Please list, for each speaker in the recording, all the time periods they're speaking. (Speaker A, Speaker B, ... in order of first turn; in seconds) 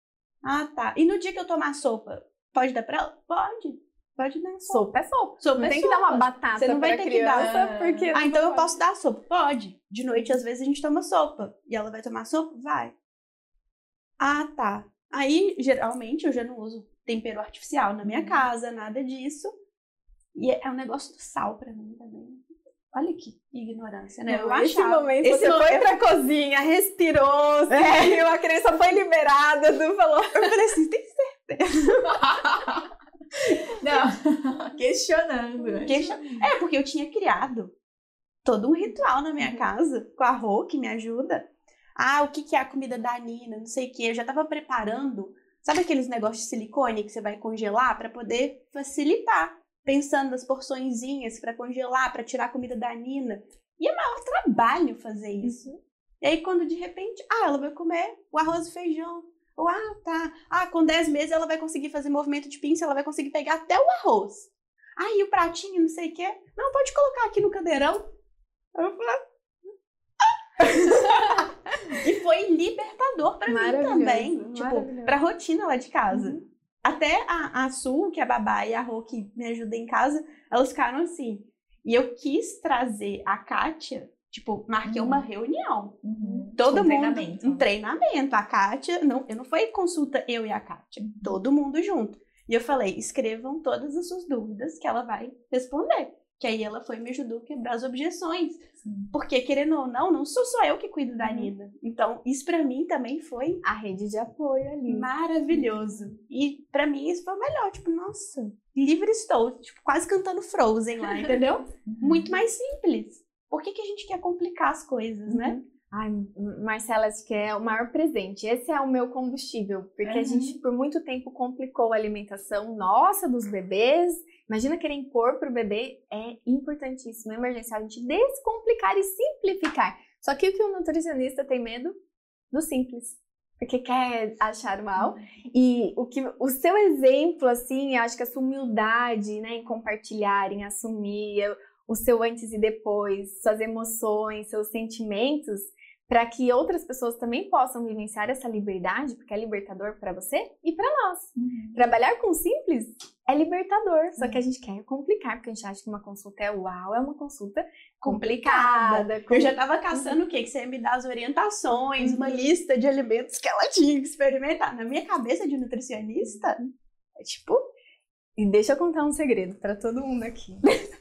Speaker A: 0.4-4.9, 5.4-7.6, 8.1-12.9, 14.2-19.5, 20.4-26.0, 27.7-28.3, 30.3-32.0, 35.9-37.8, 38.4-55.7, 56.2-68.1, 68.8-69.2, 70.6-103.6, 104.9-115.6, 158.0-166.6, 167.2-167.6
Speaker B: 4.7-8.7, 24.3-30.7, 31.9-32.2, 39.4-39.7, 55.4-55.8, 73.5-75.2, 76.1-76.4, 101.2-101.5, 103.6-106.1, 115.3-132.0, 132.5-160.2, 162.0-162.4, 168.4-170.7
Speaker C: 7.4-8.1, 18.0-18.4, 32.1-32.8, 33.4-36.4, 84.8-85.2, 86.0-87.7, 91.0-91.4, 98.8-99.1, 111.9-112.3, 120.0-120.6, 135.0-135.3, 151.4-151.8